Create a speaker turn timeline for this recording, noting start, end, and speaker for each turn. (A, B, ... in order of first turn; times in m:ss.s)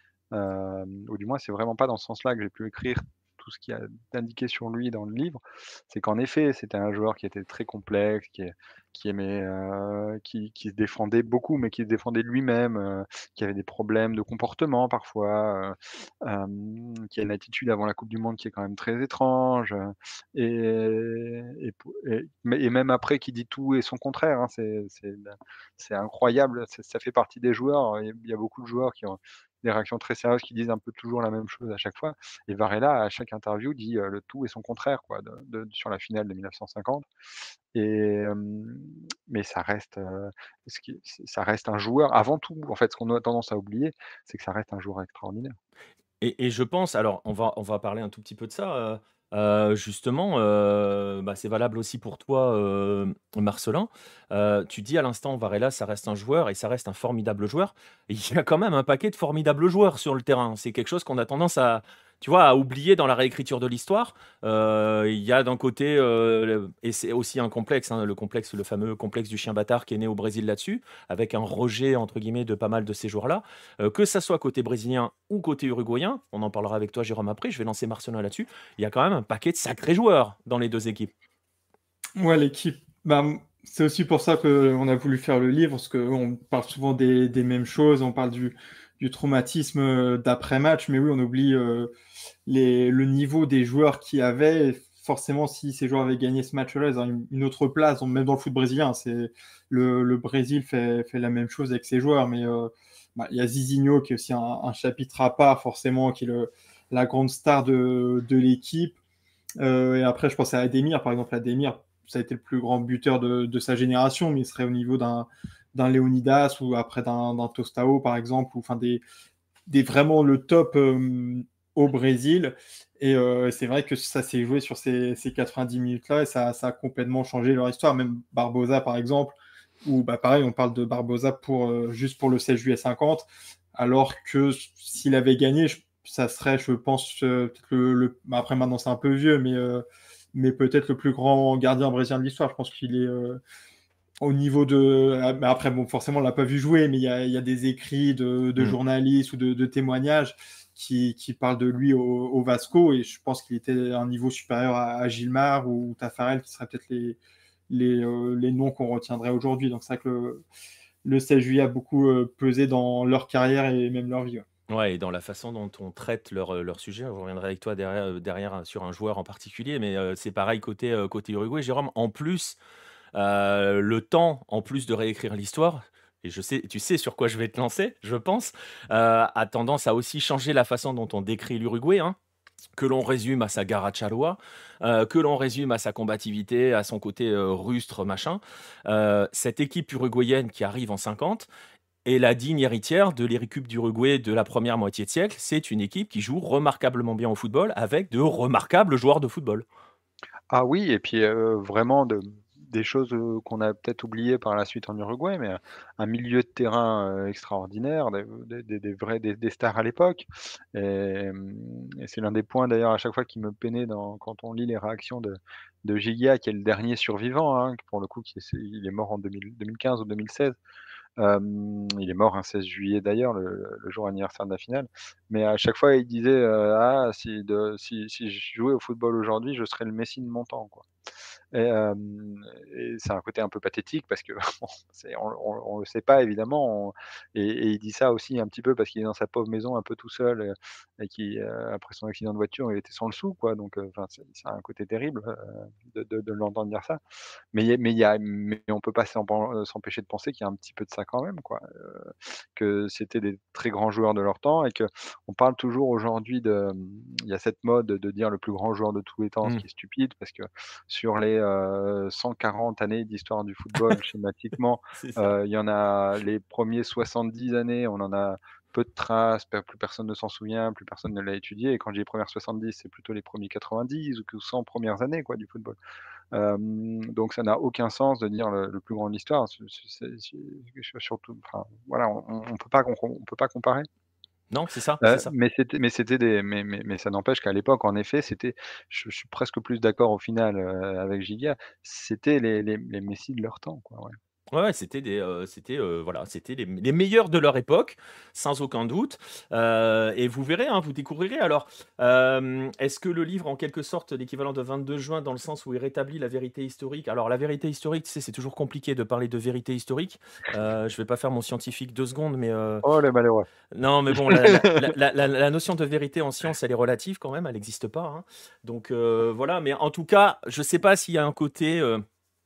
0:00.3-0:37.1 A
0:37.7-0:45.5 A
0:46.2-1:21.1 B
1:22.2-1:31.9 C
1:32.4-1:49.0 C
1:49.6-1:59.0 C
1:59.7-2:23.4 C
2:24.2-2:37.2 C
2:37.7-2:40.4 C
2:41.0-2:44.4 C
2:44.7-2:52.6 B
2:53.1-3:02.2 B
3:02.8-3:11.5 B
3:12.0-3:19.6 B
3:20.5-3:40.6 A
3:41.2-3:50.8 A
3:51.5-4:07.0 A
4:07.5-4:35.8 A
4:25.0-4:25.3 B
4:36.3-4:43.9 A
4:44.5-4:45.3 B
4:45.0-4:54.2 A
4:54.5-5:12.8 B
5:12.8-5:13.5 A
5:13.7-5:22.0 B
5:14.1-5:14.9 A